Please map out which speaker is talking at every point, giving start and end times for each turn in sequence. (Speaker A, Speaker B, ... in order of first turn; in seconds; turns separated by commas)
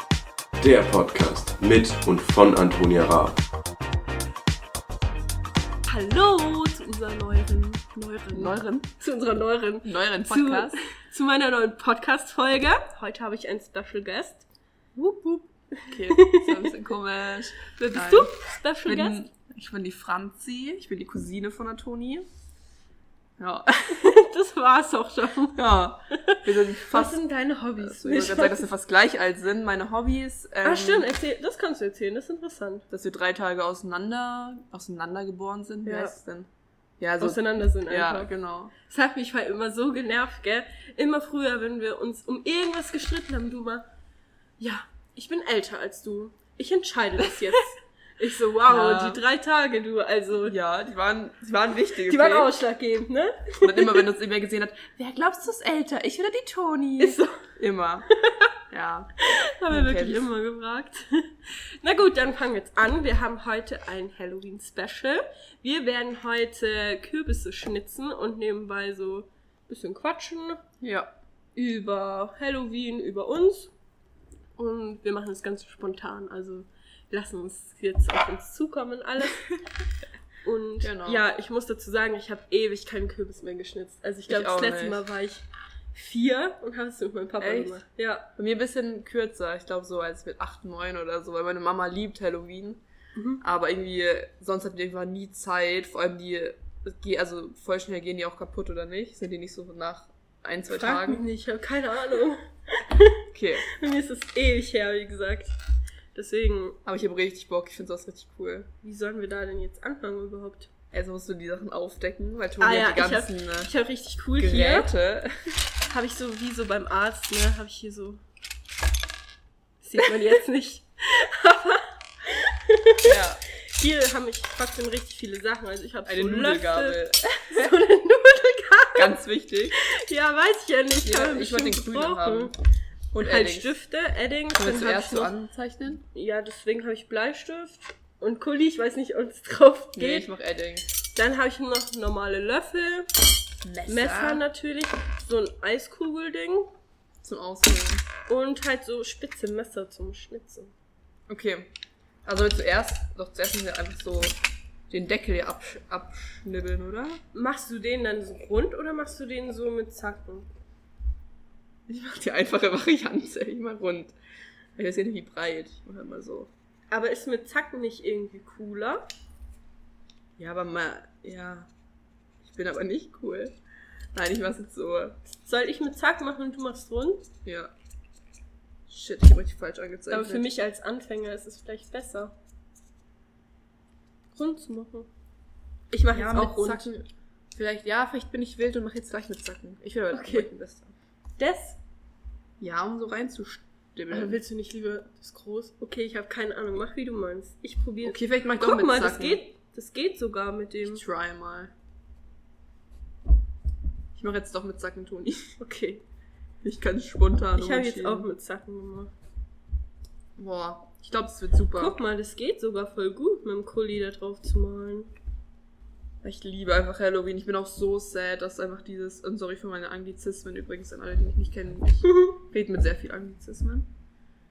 Speaker A: 0.6-3.4, Speaker B: 5.9-14.5, Speaker C: 8.3-8.9, Speaker C: 9.8-10.8, Speaker C: 15.0-18.3, Speaker B: 15.7-16.7, Speaker B: 17.7-19.2, Speaker C: 18.9-22.2, Speaker C: 23.4-24.1, Speaker B: 23.9-28.6, Speaker C: 25.5-27.2, Speaker C: 27.8-31.1, Speaker B: 30.6-32.9, Speaker C: 32.9-38.7, Speaker B: 35.8-36.1, Speaker B: 37.2-43.9, Speaker B: 44.6-50.6, Speaker C: 48.7-49.2, Speaker C: 50.4-52.5, Speaker B: 52.0-54.1, Speaker C: 53.6-58.1, Speaker B: 57.0-57.4, Speaker C: 58.7-59.1, Speaker B: 59.2-70.6, Speaker C: 59.7-60.2, Speaker C: 70.8-71.1, Speaker B: 71.5-73.7, Speaker B: 74.6-79.5, Speaker B: 80.4-88.3, Speaker C: 80.8-81.2, Speaker C: 84.3-85.0, Speaker C: 87.4-87.8, Speaker C: 88.4-92.8, Speaker B: 93.2-93.4, Speaker C: 93.4-101.2, Speaker B: 100.7-105.5, Speaker C: 103.3-103.7, Speaker B: 106.1-106.8, Speaker C: 106.8-108.7, Speaker B: 108.8-110.7, Speaker C: 110.9-113.7, Speaker B: 112.6-114.9, Speaker C: 114.4-115.6, Speaker B: 115.9-118.2, Speaker B: 119.8-129.2, Speaker C: 123.0-123.4, Speaker C: 126.0-127.7, Speaker C: 128.9-129.8, Speaker B: 129.7-132.5, Speaker C: 131.0-132.5, Speaker C: 133.1-133.7, Speaker B: 133.2-135.3, Speaker C: 134.5-136.0, Speaker B: 136.1-140.3, Speaker C: 139.9-140.9, Speaker B: 141.1-143.1, Speaker C: 143.6-144.4, Speaker B: 143.8-146.7, Speaker C: 147.2-148.0, Speaker B: 148.3-150.7, Speaker C: 151.3-151.7, Speaker C: 152.2-154.4, Speaker C: 154.9-157.2, Speaker B: 157.3-160.5, Speaker C: 161.9-164.1, Speaker C: 164.8-166.5, Speaker B: 166.9-169.1, Speaker C: 170.4-171.7, Speaker C: 172.4-173.5, Speaker C: 174.1-175.2, Speaker B: 175.4-177.2, Speaker C: 177.4-177.7, Speaker C: 178.9-180.5, Speaker B: 180.1-182.3, Speaker B: 184.3-185.1, Speaker B: 185.9-186.9, Speaker C: 186.1-190.9, Speaker B: 190.1-190.5, Speaker B: 191.4-191.8, Speaker C: 192.6-194.4, Speaker B: 194.1-201.0, Speaker C: 198.0-199.4, Speaker C: 200.8-201.7, Speaker C: 204.1-205.6, Speaker B: 205.6-206.0, Speaker C: 206.6-208.3, Speaker B: 207.5-209.1, Speaker C: 210.4-212.0, Speaker B: 211.7-215.1, Speaker C: 216.2-223.9